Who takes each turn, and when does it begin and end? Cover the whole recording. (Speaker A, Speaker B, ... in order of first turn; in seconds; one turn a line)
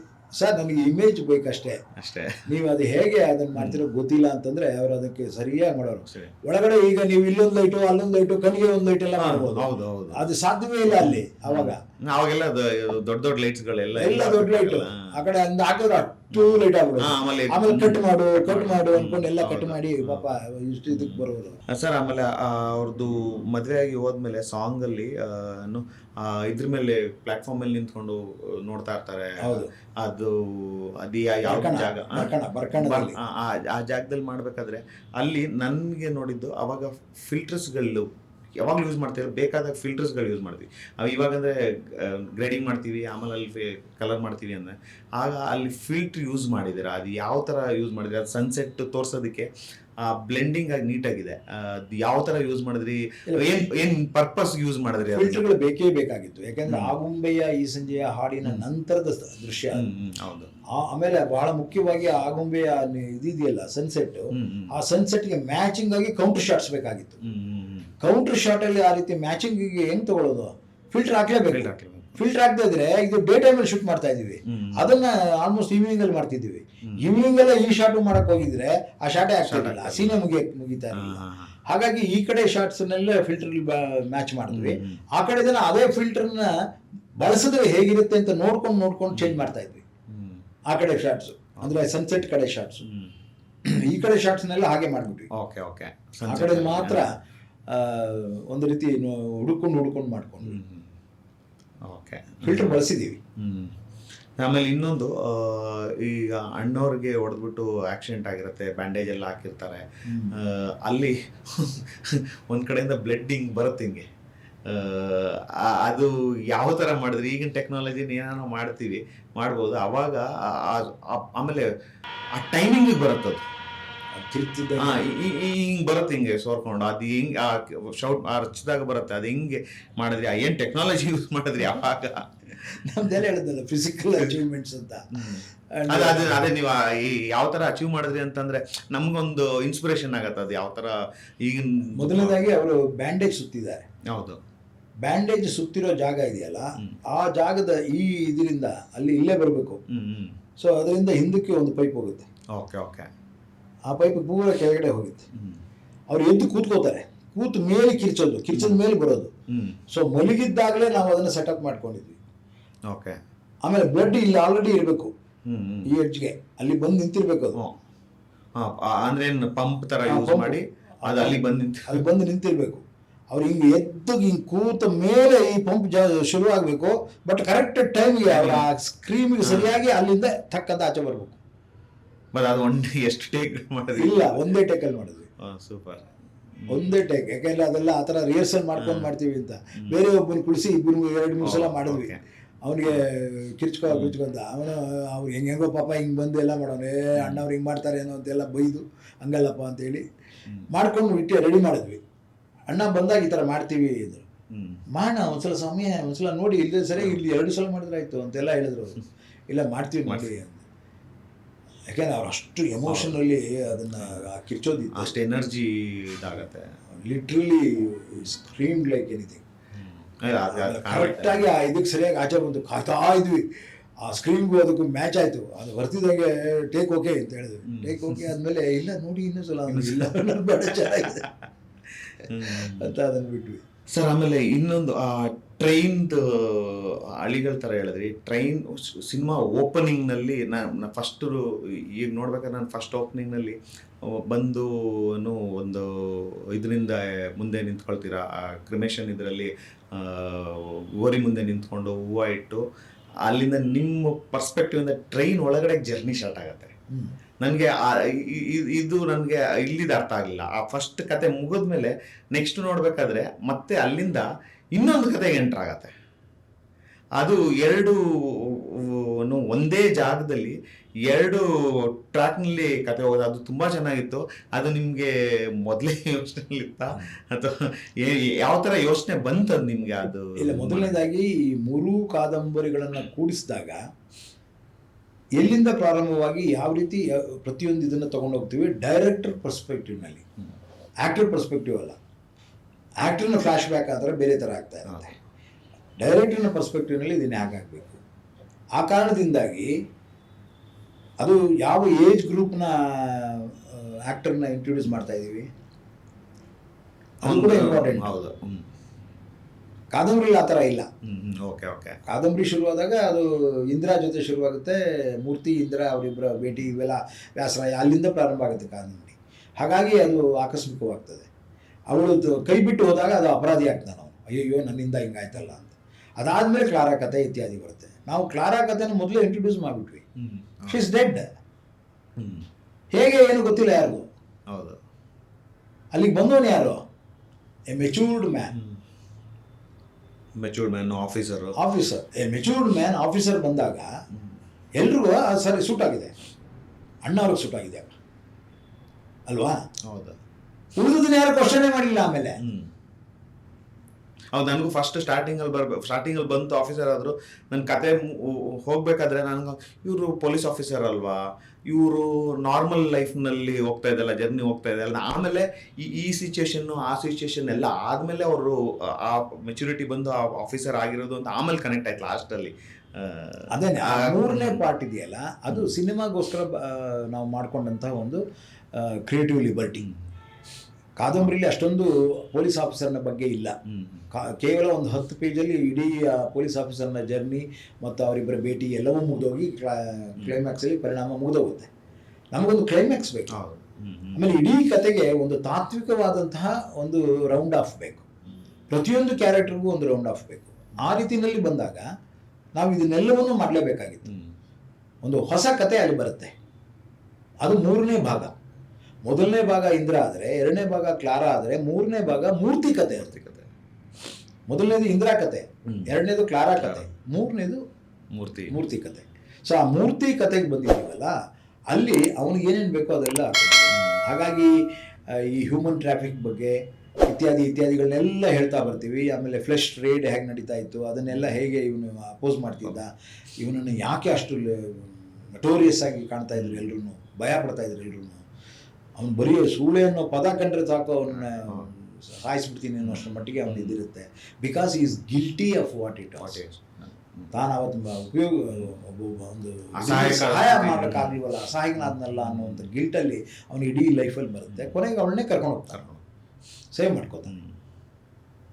Speaker A: 0.4-1.8
Speaker B: 2.0-2.4
Speaker A: 2.5-11.8
Speaker B: 3.5-3.8
Speaker B: 6.1-6.3
Speaker B: 9.2-10.2
Speaker B: 10.9-15.0
Speaker A: 14.0-21.6
Speaker B: 16.3-20.3
Speaker B: 20.9-38.1
Speaker A: 29.4-29.7
Speaker A: 31.5-33.2
Speaker B: 38.6-49.5
Speaker B: 50.0-55.4
Speaker A: 53.3-53.6
Speaker A: 55.1-59.9
Speaker B: 56.7-56.9
Speaker B: 59.7-60.5
Speaker A: 60.7-67.2
Speaker B: 64.3-64.7
Speaker B: 67.2-67.9
Speaker A: 68.0-86.5
Speaker B: 71.5-72.2
Speaker B: 74.5-75.0
Speaker B: 79.4-80.2
Speaker B: 80.9-81.5
Speaker B: 84.5-85.0
Speaker A: 87.2-89.8
Speaker B: 89.1-89.4
Speaker B: 90.1-90.4
Speaker A: 90.7-92.8
Speaker B: 92.8-93.1
Speaker A: 93.7-95.3
Speaker B: 95.3-97.0
Speaker A: 96.3-97.1
Speaker A: 97.7-100.6
Speaker B: 100.4-100.9
Speaker B: 101.9-102.8
Speaker A: 102.4-103.2
Speaker B: 103.4-103.7
Speaker B: 104.4-109.8
Speaker A: 110.1-110.4
Speaker B: 110.3-114.1
Speaker B: 114.7-121.7
Speaker B: 122.4-123.5
Speaker A: 124.2-125.0
Speaker B: 124.8-132.6
Speaker A: 132.7-136.5
Speaker B: 135.1-140.9
Speaker B: 141.4-142.6
Speaker A: 142.0-143.9
Speaker B: 144.1-144.4
Speaker A: 145.1-149.8
Speaker B: 149.9-150.3
Speaker A: 150.6-152.3
Speaker B: 152.6-153.1
Speaker A: 153.9-155.2
Speaker B: 155.3-155.6
Speaker A: 156.1-159.3
Speaker B: 158.5-158.8
Speaker B: 159.5-159.8
Speaker A: 159.9-162.2
Speaker B: 162.9-163.2
Speaker A: 163.7-165.1
Speaker B: 165.5-165.9
Speaker A: 165.9-167.6
Speaker B: 168.6-172.1
Speaker A: 170.1-181.4
Speaker B: 178.3-178.7
Speaker B: 179.4-179.8
Speaker B: 182.3-184.4
Speaker A: 184.0-185.3
Speaker B: 185.4-186.1
Speaker B: 186.6-186.9
Speaker A: 186.7-192.1
Speaker B: 188.8-189.1
Speaker B: 191.4-192.2
Speaker A: 192.7-200.1
Speaker B: 193.9-194.2
Speaker B: 197.2-197.4
Speaker A: 200.7-202.0
Speaker A: 202.7-204.2
Speaker B: 204.5-204.8
Speaker A: 204.9-210.7
Speaker B: 210.1-210.3
Speaker A: 211.9-215.2
Speaker B: 212.8-213.2
Speaker B: 214.9-216.6
Speaker A: 216.9-219.4
Speaker B: 219.8-221.5
Speaker A: 220.5-231.3
Speaker B: 227.7-228.3
Speaker B: 229.7-231.3
Speaker A: 232.3-233.6
Speaker B: 232.3-232.8
Speaker B: 233.9-241.4
Speaker B: 242.0-252.6
Speaker B: 253.3-256.7
Speaker B: 257.4-264.2
Speaker B: 264.8-265.9
Speaker B: 267.2-275.1
Speaker B: 275.7-281.0
Speaker A: 280.4-283.8
Speaker A: 285.4-290.2
Speaker A: 291.0-292.0
Speaker A: 293.0-295.1
Speaker A: 296.0-298.0
Speaker A: 298.8-299.7
Speaker A: 301.2-305.5
Speaker A: 307.2-308.1
Speaker B: 307.2-308.7
Speaker A: 309.9-310.9
Speaker B: 311.1-311.9
Speaker A: 312.1-321.3
Speaker A: 321.9-330.1
Speaker B: 330.2-330.8
Speaker A: 330.7-331.3
Speaker B: 332.2-332.5
Speaker A: 332.9-334.1
Speaker B: 334.5-334.8
Speaker A: 335.9-336.8
Speaker A: 337.7-338.6
Speaker B: 338.5-338.8
Speaker B: 340.4-341.6
Speaker A: 341.6-343.9
Speaker A: 344.8-346.1
Speaker A: 347.1-348.0
Speaker A: 349.3-349.6
Speaker B: 349.9-350.2
Speaker A: 350.8-352.4
Speaker B: 352.4-352.7
Speaker B: 354.3-374.6
Speaker A: 373.5-378.2
Speaker A: 378.8-379.9
Speaker B: 379.8-380.0
Speaker A: 381.0-383.6
Speaker B: 383.7-384.1
Speaker A: 384.1-391.7
Speaker A: 392.3-393.3
Speaker B: 393.3-394.3
Speaker A: 394.1-398.1
Speaker A: 398.7-401.8
Speaker A: 402.6-404.1
Speaker B: 404.1-404.3
Speaker A: 405.0-406.3
Speaker A: 407.4-408.3
Speaker A: 409.1-413.1
Speaker B: 413.0-413.5
Speaker A: 414.5-417.6
Speaker B: 415.7-415.9
Speaker B: 416.6-416.9
Speaker B: 418.1-418.6
Speaker A: 418.5-421.1
Speaker A: 421.7-424.5
Speaker B: 423.7-424.0
Speaker A: 425.3-438.2
Speaker B: 431.1-431.4
Speaker B: 436.4-436.7
Speaker A: 439.0-446.4
Speaker B: 441.1-441.7
Speaker B: 442.8-443.8
Speaker B: 446.2-447.3
Speaker A: 447.3-455.8
Speaker B: 449.8-451.2
Speaker B: 451.8-452.7
Speaker B: 455.7-456.0
Speaker A: 456.8-457.3
Speaker B: 457.3-457.6